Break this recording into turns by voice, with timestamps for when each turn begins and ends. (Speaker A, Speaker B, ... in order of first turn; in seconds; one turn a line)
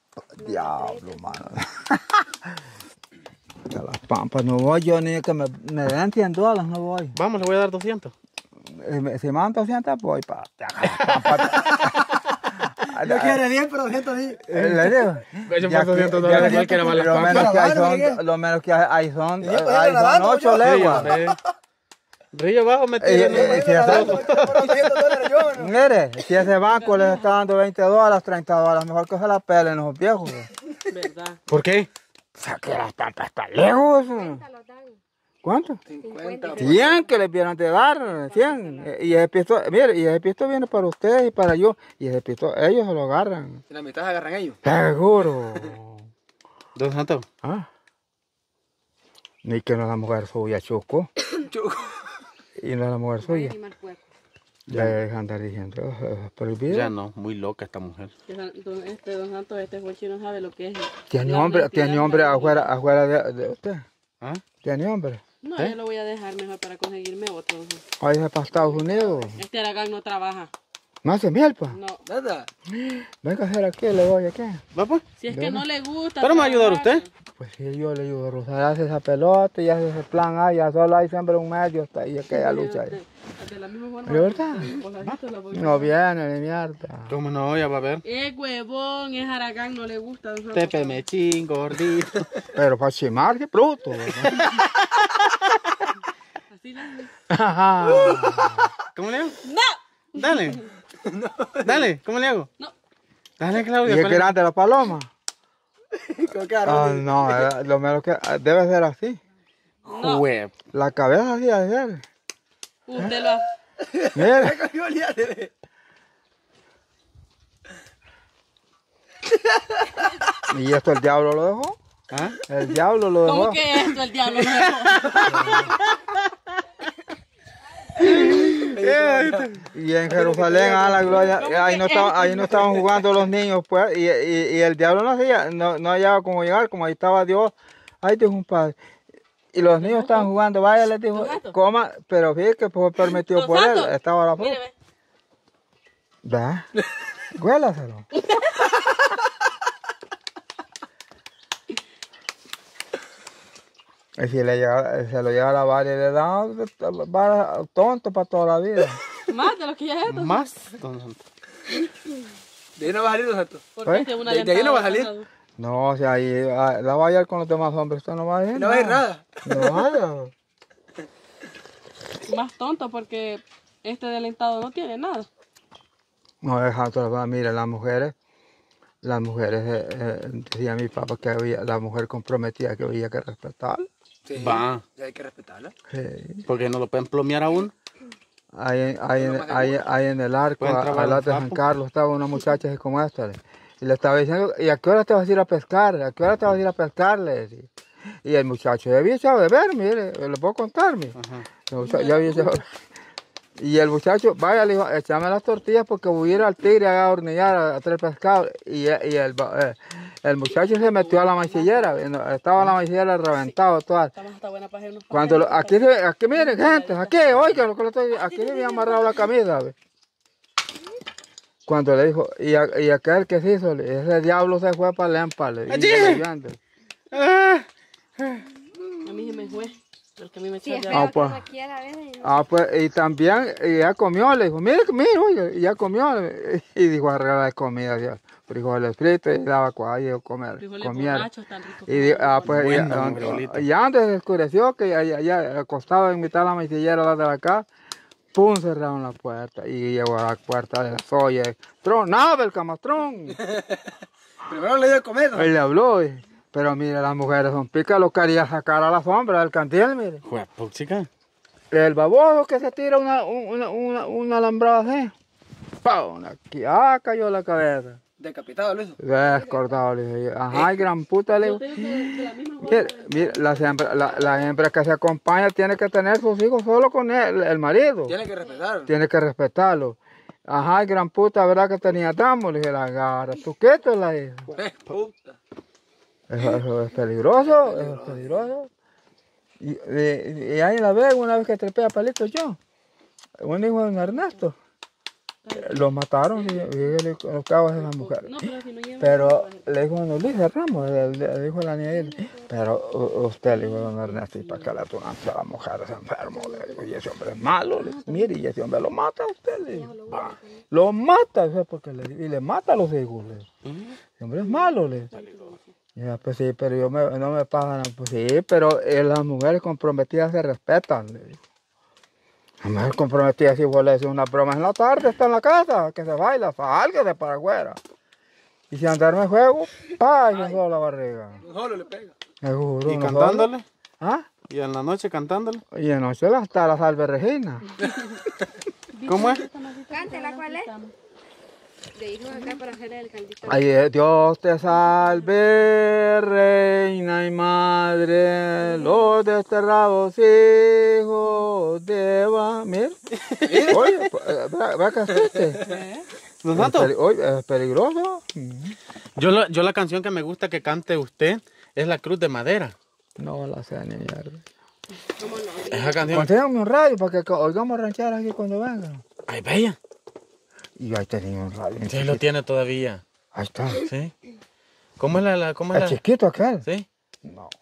Speaker A: 0.3-2.4
Speaker B: 0.4-1.2
Speaker A: 3.7-7.2
Speaker C: 7.2-8.1
Speaker A: 8.7-12.1
Speaker C: 10.9-11.7
Speaker A: 12.7-13.5
Speaker D: 13.0-14.4
Speaker A: 14.5-21.2
Speaker C: 14.5-17.6
Speaker D: 17.2-18.2
Speaker D: 19.4-21.4
Speaker C: 20.6-21.4
Speaker C: 22.3-24.9
Speaker A: 23.0-24.4
Speaker D: 23.3-25.7
Speaker A: 25.5-30.5
Speaker E: 26.8-27.2
Speaker E: 30.9-31.4
Speaker C: 31.5-31.9
Speaker A: 32.4-34.5
Speaker B: 34.2-35.0
Speaker A: 35.4-35.8
Speaker D: 35.9-37.0
Speaker B: 36.0-36.6
Speaker A: 36.5-43.6
Speaker B: 38.3-38.9
Speaker D: 43.7-44.6
Speaker A: 44.6-46.0
Speaker C: 46.8-47.2
Speaker A: 49.4-51.1
Speaker D: 51.3-52.1
Speaker A: 52.6-53.5
Speaker B: 53.3-54.0
Speaker C: 54.7-55.0
Speaker A: 54.7-56.9
Speaker C: 56.7-58.1
Speaker E: 58.3-62.7
Speaker A: 61.1-63.9
Speaker A: 64.6-65.2
Speaker E: 65.4-67.8
Speaker A: 68.0-69.4
Speaker E: 68.5-70.5
Speaker A: 71.0-71.8
Speaker E: 71.7-72.0
Speaker D: 72.1-72.5
Speaker A: 72.7-74.6
Speaker C: 74.7-75.1
Speaker E: 75.2-77.1
Speaker A: 75.3-75.7
Speaker C: 76.2-77.0
Speaker A: 77.4-83.0
Speaker E: 82.3-85.9
Speaker A: 84.1-84.7
Speaker A: 85.5-87.1
Speaker C: 87.1-88.0
Speaker E: 88.1-91.0
Speaker C: 90.5-92.3
Speaker A: 92.5-94.5
Speaker C: 94.4-95.0
Speaker E: 96.5-97.1
Speaker A: 97.3-98.7
Speaker C: 98.8-99.4
Speaker E: 99.4-100.6
Speaker C: 100.2-100.6
Speaker D: 101.0-101.8
Speaker C: 101.6-102.5
Speaker C: 103.4-104.3
Speaker A: 103.8-105.1
Speaker D: 105.9-107.5
Speaker A: 106.6-109.2
Speaker E: 109.9-110.2
Speaker C: 109.9-110.5
Speaker A: 110.7-112.0
Speaker E: 112.9-113.5
Speaker D: 113.8-115.5
Speaker A: 114.1-114.6
Speaker D: 119.5-119.8
Speaker A: 120.4-121.8
Speaker C: 122.1-122.4
Speaker A: 122.5-123.6
Speaker E: 123.2-125.8
Speaker C: 124.6-126.2
Speaker C: 128.0-129.7
Speaker D: 128.3-129.5
Speaker A: 129.7-138.8
Speaker D: 130.1-131.3
Speaker E: 131.3-133.0
Speaker A: 139.5-144.6
Speaker E: 139.8-140.3
Speaker E: 141.1-141.6
Speaker E: 143.3-144.7
Speaker A: 146.2-146.7
Speaker A: 147.3-148.1
Speaker E: 148.2-148.8
Speaker A: 154.2-159.0
Speaker E: 159.3-160.4
Speaker C: 160.1-161.2
Speaker D: 162.8-163.7
Speaker E: 163.8-165.3
Speaker A: 163.8-164.1
Speaker D: 164.2-165.1
Speaker A: 165.6-170.3
Speaker D: 168.5-169.8
Speaker E: 172.2-175.3
Speaker A: 176.4-178.1
Speaker A: 179.0-183.9
Speaker D: 184.3-185.7
Speaker C: 184.4-184.8
Speaker A: 185.9-186.5
Speaker C: 186.5-187.7
Speaker A: 188.5-197.7
Speaker D: 189.1-189.8
Speaker C: 190.6-191.7
Speaker A: 198.2-201.2
Speaker C: 201.2-201.5
Speaker A: 201.7-202.7
Speaker E: 201.8-202.6
Speaker A: 203.6-214.1
Speaker E: 210.5-212.0
Speaker E: 214.2-217.4
Speaker A: 215.1-219.8
Speaker E: 218.4-218.7
Speaker A: 221.7-226.6
Speaker C: 225.7-226.2
Speaker C: 227.1-227.7
Speaker C: 228.2-228.4
Speaker E: 229.0-231.1
Speaker B: 230.6-232.4
Speaker A: 230.9-231.4
Speaker A: 232.2-241.3
Speaker E: 240.6-242.8
Speaker A: 241.9-247.7
Speaker C: 242.4-243.7
Speaker A: 248.3-253.4
Speaker D: 254.4-255.5
Speaker A: 255.3-260.2
Speaker C: 260.2-261.1
Speaker A: 261.7-265.1
Speaker A: 265.8-268.0
Speaker D: 268.2-269.0
Speaker A: 269.0-278.2
Speaker E: 271.4-274.0
Speaker D: 278.1-278.9
Speaker A: 278.9-280.0
Speaker A: 280.5-284.6
Speaker D: 284.5-285.4
Speaker A: 286.3-288.7
Speaker D: 287.4-288.5
Speaker A: 289.6-292.6
Speaker A: 293.4-294.6
Speaker E: 295.4-295.9
Speaker A: 295.5-298.4
Speaker E: 296.4-296.9
Speaker E: 297.8-299.6
Speaker A: 299.0-310.1
Speaker E: 303.7-304.7
Speaker E: 307.8-308.3
Speaker B: 309.8-310.6
Speaker C: 310.1-310.4
Speaker A: 310.7-313.5
Speaker C: 313.7-313.9
Speaker A: 314.2-315.1
Speaker E: 314.6-315.7
Speaker C: 315.1-315.5
Speaker A: 316.0-321.4
Speaker A: 322.6-327.8
Speaker A: 328.7-331.4
Speaker D: 331.4-332.1
Speaker A: 332.4-333.5
Speaker C: 332.9-333.6
Speaker C: 334.5-335.6
Speaker A: 335.7-337.9
Speaker E: 338.9-340.9
Speaker C: 339.1-339.5
Speaker B: 339.9-340.7
Speaker B: 341.9-343.6
Speaker A: 343.5-353.0
Speaker D: 353.4-354.0
Speaker A: 353.6-355.6
Speaker E: 355.6-356.0
Speaker C: 356.4-356.9
Speaker A: 356.6-358.8
Speaker C: 359.2-362.8
Speaker A: 363.2-364.4
Speaker E: 365.1-366.2
Speaker C: 365.7-366.3
Speaker A: 366.1-369.0
Speaker C: 369.3-369.8
Speaker A: 370.8-372.2
Speaker C: 371.9-373.0
Speaker A: 373.3-373.9
Speaker C: 373.8-374.1
Speaker C: 375.0-376.0
Speaker A: 375.7-376.7
Speaker A: 377.2-377.5